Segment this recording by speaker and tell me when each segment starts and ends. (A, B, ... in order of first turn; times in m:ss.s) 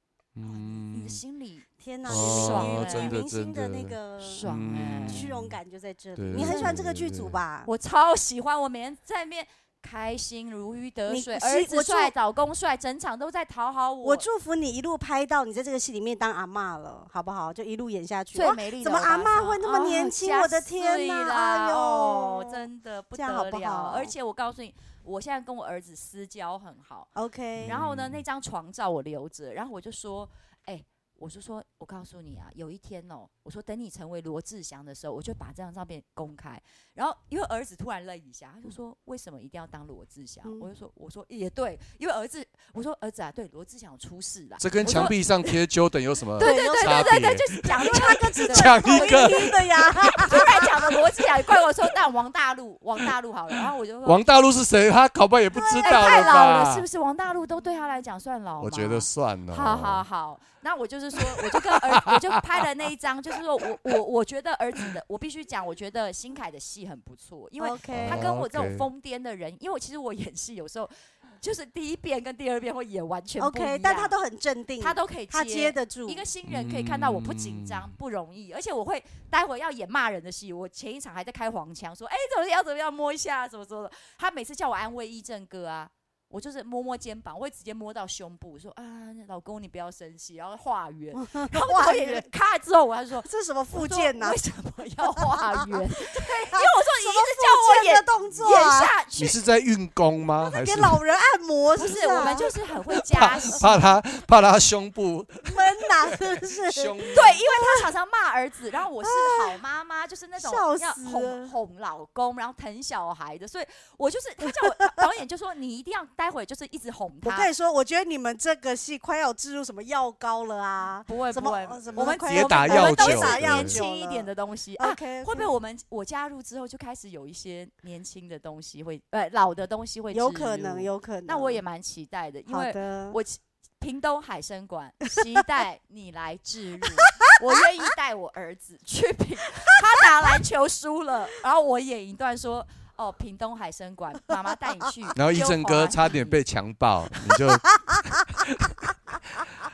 0:00.4-0:01.2 A
0:00.9-0:03.2 B
0:01.8-0:04.4 C
0:02.1-0:05.6 A
0:04.2-0:05.3 B
0:05.1-0:07.7 C
0:06.2-0:07.4 A
0:06.4-0:06.8 B
0:07.6-0:14.2 B
0:11.1-0:12.1 C
0:14.0-0:22.6 C
0:18.3-0:27.1 B
0:23.2-0:24.1 C
0:27.2-0:27.8 C
0:27.6-0:28.2 A
0:27.6-0:45.6 B
0:44.6-0:51.0 A
0:46.4-0:50.7 C
0:46.4-0:54.2 B
0:54.0-0:56.8 A
0:55.5-0:56.5 C
0:55.8-1:14.1 B
0:58.6-1:00.0 A
1:01.3-1:02.4 A
1:07.6-1:08.3 C
1:07.9-1:08.9 A
1:13.4-1:16.2 C
1:14.8-1:39.4 B
1:16.5-1:17.9 A
1:31.1-1:32.3 C
1:33.2-1:34.4 C
1:35.2-1:38.9 C
1:39.2-1:41.0 A
1:40.4-1:42.5 C
1:41.8-1:43.9 B
1:43.1-1:47.4 A
1:45.4-1:47.9 C
1:47.1-1:57.5 B
1:49.0-1:49.6 C
1:50.4-1:51.5 C
1:57.2-2:05.5 C
2:01.1-2:26.4 B
2:02.0-2:03.8 A
2:10.1-2:11.6 C
2:12.5-2:13.2 C
2:25.2-2:28.9 A